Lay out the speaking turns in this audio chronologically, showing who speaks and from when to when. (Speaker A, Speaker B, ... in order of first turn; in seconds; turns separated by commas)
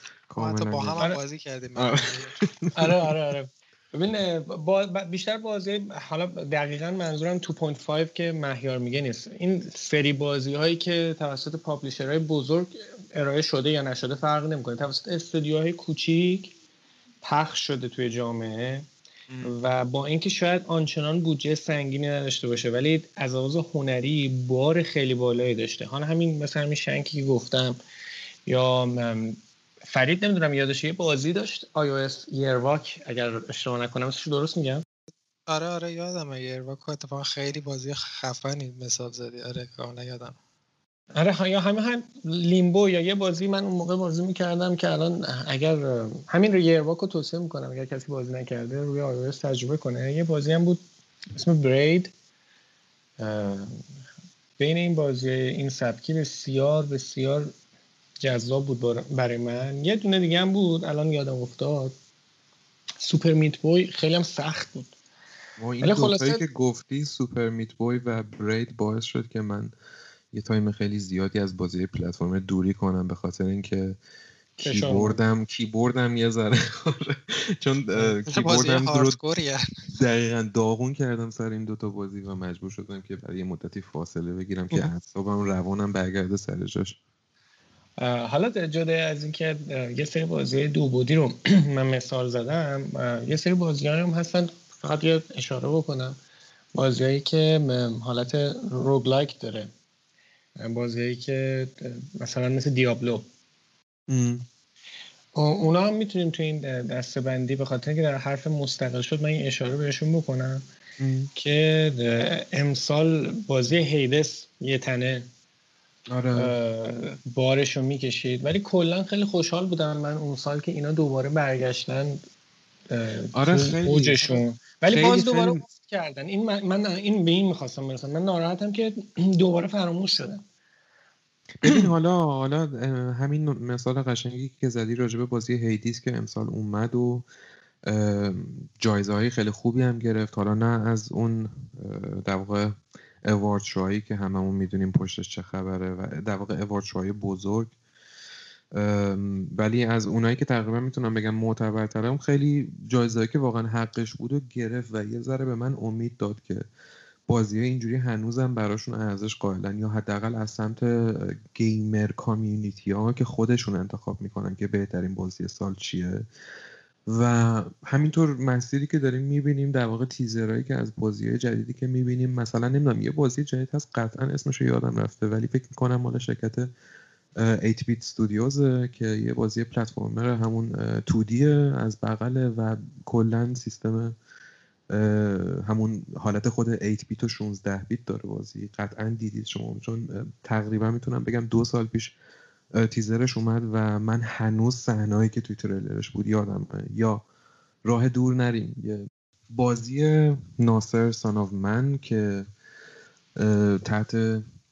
Speaker A: 0.3-1.1, Speaker B: 0.4-2.4, Speaker A: 1.8-3.1, Speaker C: 2.7-16.5, Speaker C: 17.2-18.9, Speaker C: 19.4-27.8, Speaker C: 28.4-34.8, Speaker B: 35.5-40.4, Speaker C: 41.1-50.8, Speaker C: 51.3-52.1, Speaker C: 53.2-53.8, Speaker C: 54.6-57.5, Speaker C: 58.2-61.9, Speaker C: 63.0-64.9, Speaker A: 65.6-69.7, Speaker C: 65.8-66.4, Speaker A: 70.3-74.0, Speaker A: 74.6-79.2, Speaker C: 74.6-75.2, Speaker B: 78.0-79.6, Speaker A: 79.9-87.0, Speaker C: 88.0-96.2, Speaker C: 96.7-99.7, Speaker C: 100.6-103.2, Speaker A: 104.1-104.5, Speaker C: 105.3-110.6, Speaker A: 111.0-111.3, Speaker C: 111.3-115.3, Speaker A: 116.1-116.5, Speaker C: 116.3-122.2, Speaker C: 122.9-130.4, Speaker A: 123.3-125.6, Speaker A: 131.6-137.2, Speaker A: 137.8-147.7, Speaker A: 148.7-156.7, Speaker A: 157.3-166.2, Speaker A: 167.1-176.7, Speaker A: 177.4-184.1, Speaker A: 184.9-192.2, Speaker A: 192.7-197.2, Speaker A: 197.8-202.5, Speaker A: 203.4-204.4